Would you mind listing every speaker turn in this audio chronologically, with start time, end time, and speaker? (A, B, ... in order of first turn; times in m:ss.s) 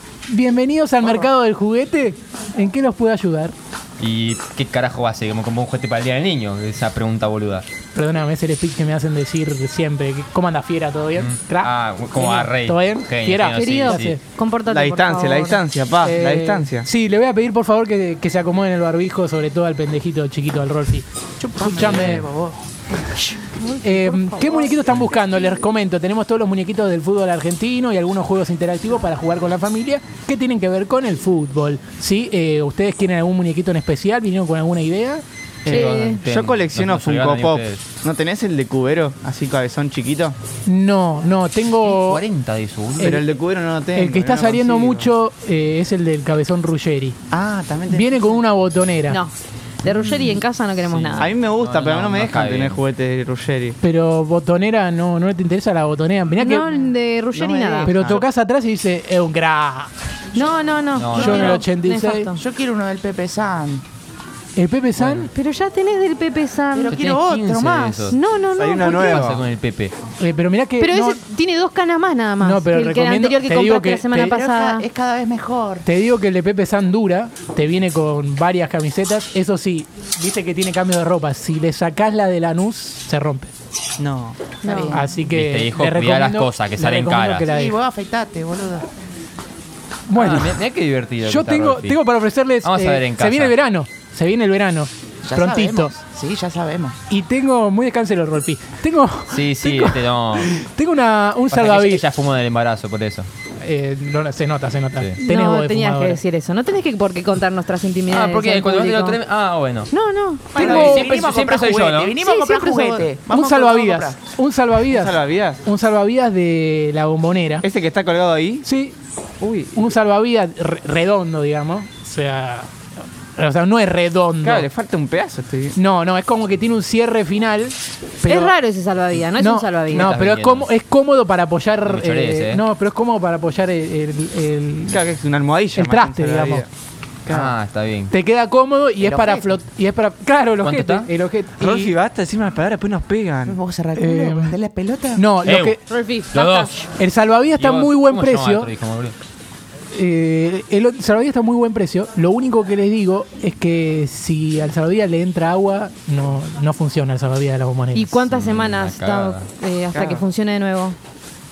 0:00.3-0:03.5 A
0:04.0-0:07.7 B
0:07.9-0:14.2 A
0:11.1-0:14.2 B
0:13.5-0:15.6 C
0:14.6-0:16.9 D
0:16.0-0:22.3 A
0:21.4-0:22.6 E
0:21.7-0:22.1 D
0:21.9-0:22.2 B
0:23.0-0:25.2 C
0:23.8-0:35.2 A
0:35.6-0:40.4 D
0:35.6-0:36.2 C
0:35.6-0:37.8 B
0:40.6-0:42.2 A
0:41.8-0:43.2 B
0:43.0-0:43.3 A
0:43.0-0:45.1 D
0:43.9-0:47.2 A
0:47.3-0:48.3 E
0:47.6-0:48.0 D
0:47.9-0:49.2 A
0:49.1-0:51.3 C
0:50.9-0:52.8 B
0:51.2-0:53.8 D
0:53.8-0:56.7 A
0:56.4-0:58.0 C
0:56.7-0:58.2 E
0:57.8-0:59.9 A
0:57.9-0:58.2 D
1:00.3-1:02.4 C
1:00.9-1:01.6 B
1:01.1-1:02.3 A
1:01.2-1:01.6 E
1:02.4-1:03.8 E
1:04.6-1:05.3 A
1:05.0-1:05.3 B
1:05.3-1:07.0 C
1:06.7-1:08.2 E
1:06.9-1:08.2 B
1:08.1-1:09.3 C
1:08.6-1:09.4 D
1:08.9-1:09.9 B
1:10.2-1:11.2 A
1:10.8-1:14.8 C
1:12.4-1:14.1 A
1:14.1-1:15.8 E
1:15.8-1:23.5 A
1:24.0-1:24.6 D
1:24.6-1:25.0 C
1:24.6-1:25.0 E
1:24.9-1:27.8 A
1:25.2-1:27.5 B
1:27.5-1:28.8 E
1:30.1-1:30.6 A
1:30.1-1:32.0 B
1:31.2-1:35.9 A
1:32.6-1:33.6 B
1:35.2-1:37.0 E
1:37.1-1:42.0 A
1:39.3-1:40.5 B
1:41.5-1:43.3 B
1:43.6-1:46.2 A
1:45.2-1:49.2 C
1:48.1-1:49.9 B
1:49.9-1:50.8 C
1:50.5-1:54.2 E
1:50.5-1:51.2 A
1:50.6-1:52.2 B
1:52.2-1:53.0 C
1:53.3-1:57.6 A
1:54.8-1:55.6 D
1:57.6-1:58.6 D
1:58.6-1:59.0 A
1:59.4-1:59.8 D
1:59.7-2:02.7 A
2:03.4-2:04.7 A
2:04.4-2:05.8 D
2:05.7-2:08.5 A
2:08.2-2:10.1 C
2:09.4-2:15.0 A
2:09.9-2:10.7 B
2:11.8-2:12.6 B
2:14.9-2:16.7 D
2:15.7-2:16.6 A
2:17.2-2:17.5 D
2:17.3-2:18.1 B
2:18.1-2:21.9 A
2:19.0-2:19.6 E
2:20.6-2:21.1 B
2:21.6-2:23.6 D
2:23.4-2:25.2 E
2:23.9-2:24.6 A
2:25.1-2:25.8 A
2:25.4-2:25.8 B
2:25.9-2:26.9 C
2:26.3-2:26.7 B
2:27.0-2:28.7 A
2:27.6-2:29.2 B
2:29.9-2:38.2 A
2:37.9-2:41.0 C
2:38.3-2:39.5 B
2:39.9-2:40.2 D